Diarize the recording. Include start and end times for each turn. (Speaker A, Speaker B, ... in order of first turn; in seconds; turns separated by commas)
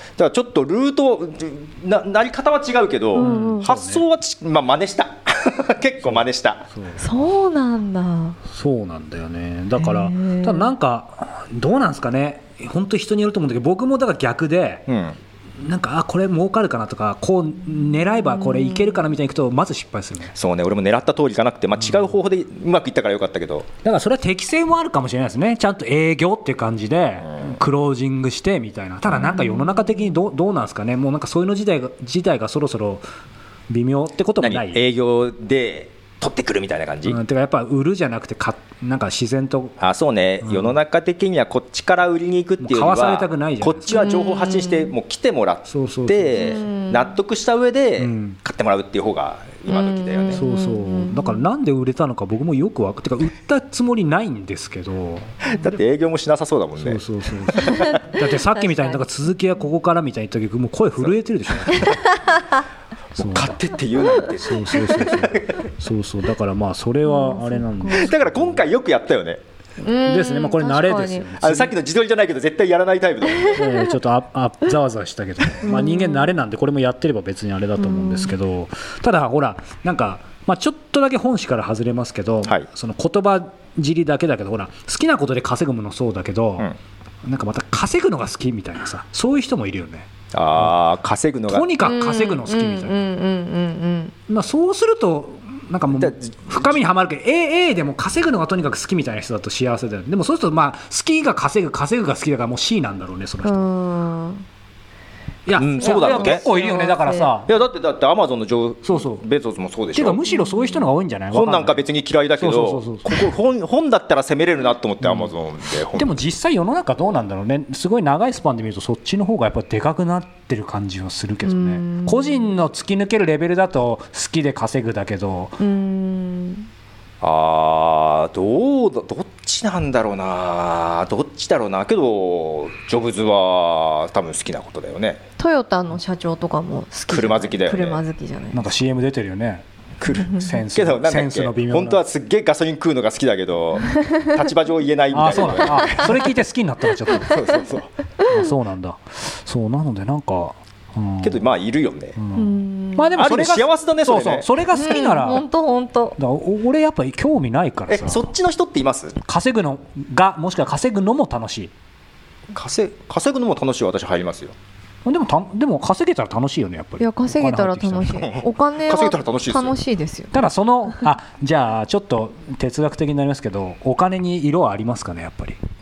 Speaker A: 0.2-6.6, Speaker B: 3.1-3.7, Speaker C: 3.2-4.0, Speaker C: 6.0-7.0, Speaker B: 7.0-8.4, Speaker C: 8.5-14.9, Speaker B: 9.8-10.7, Speaker A: 14.9-15.2, Speaker C: 15.6-20.3, Speaker B: 18.3-19.0, Speaker A: 20.3-23.7, Speaker C: 21.8-22.1, Speaker C: 23.8-33.0, Speaker A: 27.3-27.5, Speaker B: 29.2-30.0, Speaker C: 33.7-34.8, Speaker A: 34.4-37.2, Speaker C: 37.0-39.8, Speaker A: 39.8-50.4, Speaker C: 40.4-40.8, Speaker C: 42.6-44.1, Speaker B: 43.9-44.9, Speaker C: 45.7-46.5, Speaker B: 46.4-47.1, Speaker C: 48.0-48.4, Speaker B: 49.7-51.4, Speaker C: 50.3-55.7, Speaker A: 55.5-58.0, Speaker C: 56.8-62.0, Speaker B: 57.5-59.0, Speaker B: 61.8-62.6, Speaker A: 63.1-65.7, Speaker C: 63.2-63.6, Speaker C: 64.4-68.6, Speaker B: 67.0-68.1, Speaker A: 67.9-69.4, Speaker B: 69.8-71.3, Speaker C: 70.0-71.7, Speaker A: 71.4-73.7, Speaker B: 73.3-73.9, Speaker C: 73.6-86.7, Speaker B: 75.6-76.3, Speaker B: 77.8-78.3, Speaker C: 87.2-90.7, Speaker A: 90.3-91.7, Speaker C: 91.5-93.0, Speaker B: 91.8-94.1, Speaker C: 94.3-103.7, Speaker A: 95.9-96.8, Speaker B: 103.4-104.4, Speaker C: 105.5-107.5, Speaker A: 105.5-106.4, Speaker B: 105.8-107.3, Speaker A: 107.5-110.2, Speaker C: 108.8-109.2, Speaker C: 109.9-111.8, Speaker B: 110.3-110.8, Speaker A: 111.3-116.2, Speaker C: 112.4-113.2, Speaker C: 115.0-115.3, Speaker C: 115.9-125.6, Speaker B: 121.4-122.5, Speaker B: 125.6-126.7, Speaker A: 127.2-135.2, Speaker B: 135.4-138.6, Speaker A: 137.1-138.0, Speaker C: 138.5-139.6, Speaker A: 140.0-146.2, Speaker C: 140.3-142.0, Speaker B: 143.8-144.3, Speaker C: 145.1-147.4, Speaker B: 145.7-146.1, Speaker B: 147.1-147.6, Speaker A: 147.2-147.9, Speaker B: 148.2-148.5, Speaker C: 148.3-151.5, Speaker A: 151.2-152.2, Speaker C: 152.2-155.4, Speaker B: 152.3-153.2, Speaker A: 153.2-154.5, Speaker B: 154.7-156.2, Speaker C: 156.2-158.3, Speaker A: 157.9-159.2, Speaker C: 159.2-161.7, Speaker A: 162.5-164.5, Speaker C: 165.0-168.2, Speaker B: 167.0-170.3, Speaker A: 168.2-169.8, Speaker C: 170.3-175.6